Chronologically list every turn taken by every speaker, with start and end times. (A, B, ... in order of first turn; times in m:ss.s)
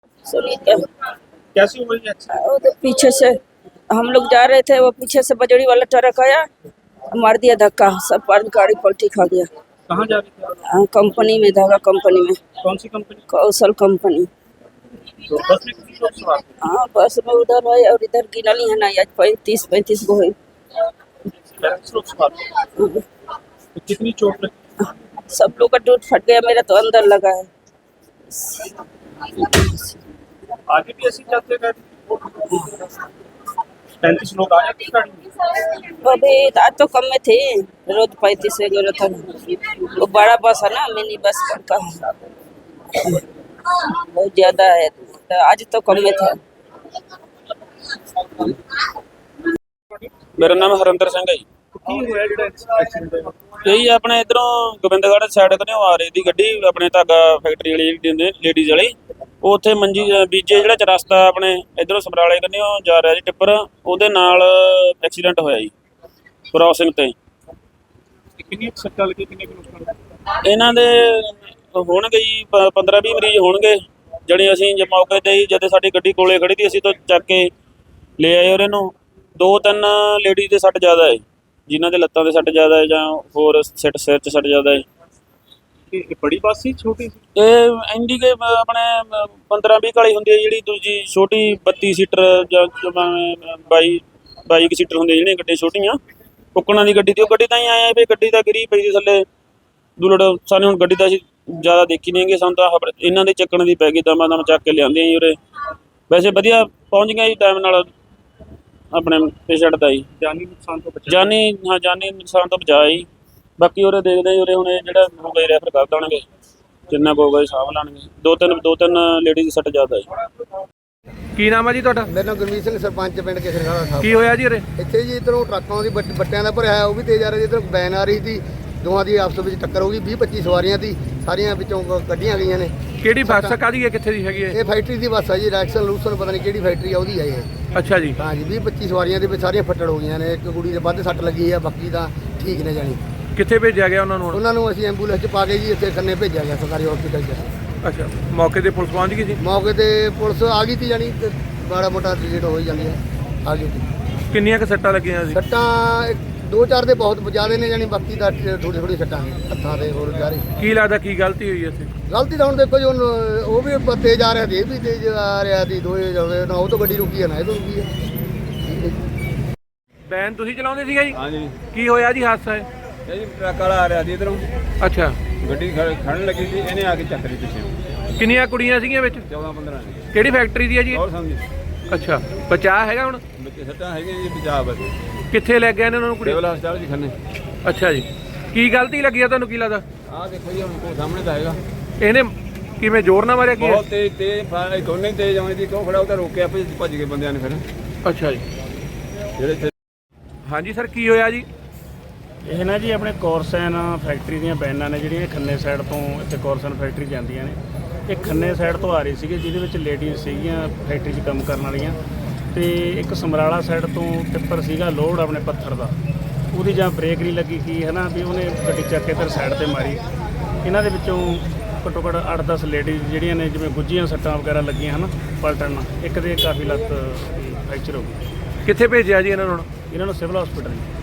0:00.3-0:00.8 A
0:01.6-0:02.3 B
0:02.3-0:03.4 A
0:03.9-0:06.4 A
0:07.1-0:09.5 A
0:09.9-0:10.5 B
0:10.6-0:12.6 A
0:12.6-0:13.2 B
0:13.3-0:14.3 A
0:15.3-0:16.5 B
0:16.6-0:20.4 A
0:21.6-0:22.4 B
0:22.8-0:23.0 A
0:23.8-0:24.5 B
0:24.8-0:27.5 A
0:28.4-0:28.7 A
0:29.3-0:29.8 A
0:30.7-0:31.8 B
0:34.0-0:35.2 B
0:36.0-0:39.4 A
0:39.9-0:42.1 A
0:44.0-0:46.4 A
0:50.4-0:51.4 C
0:51.8-0:53.3 B
0:53.6-1:05.7 C
1:06.5-1:07.1 C
1:08.5-1:09.9 B
1:10.4-1:17.5 C
1:18.2-1:24.8 C
1:25.9-1:27.2 B
1:27.4-1:36.0 C
1:36.6-1:39.2 C
1:40.0-1:45.4 C
1:46.1-1:47.9 C
1:48.9-1:50.1 C
1:50.2-1:51.2 B
1:51.1-1:53.1 C
1:53.6-1:56.2 C
1:56.9-2:00.1 C
2:01.4-2:02.1 D
2:02.1-2:04.2 E
2:04.0-2:04.6 D
2:04.8-2:13.6 E
2:13.0-2:14.6 D
2:14.5-2:17.5 E
2:17.8-2:18.2 D
2:18.2-2:23.0 E
2:23.4-2:24.4 D
2:24.3-2:27.5 E
2:27.8-2:29.4 D
2:29.4-2:33.9 E
2:34.3-2:35.4 D
2:35.3-2:40.4 E
2:40.6-2:41.9 D
2:42.1-2:47.9 E
2:48.6-2:49.0 E
2:50.1-2:51.2 D
2:51.1-2:51.6 F
2:51.7-2:52.7 D
2:53.1-2:54.5 F
2:54.8-2:55.2 D
2:55.4-2:57.7 F
2:58.2-2:59.2 D
2:59.2-3:00.1 F
3:00.1-3:01.0 D
3:00.9-3:01.4 F
3:01.9-3:03.2 D
3:03.4-3:05.0 F
3:05.3-3:06.4 D
3:06.2-3:07.2 F
3:07.6-3:09.8 D
3:10.1-3:11.6 F
3:12.0-3:13.9 D
3:13.6-3:17.6 F
3:18.0-3:18.4 D
3:19.4-3:19.7 F
3:20.5-3:21.5 D
3:22.5-3:32.0 G
3:32.5-3:36.0 G
3:36.5-3:40.0 G
3:40.6-3:48.2 G
3:48.7-3:49.7 D
3:49.9-3:50.9 G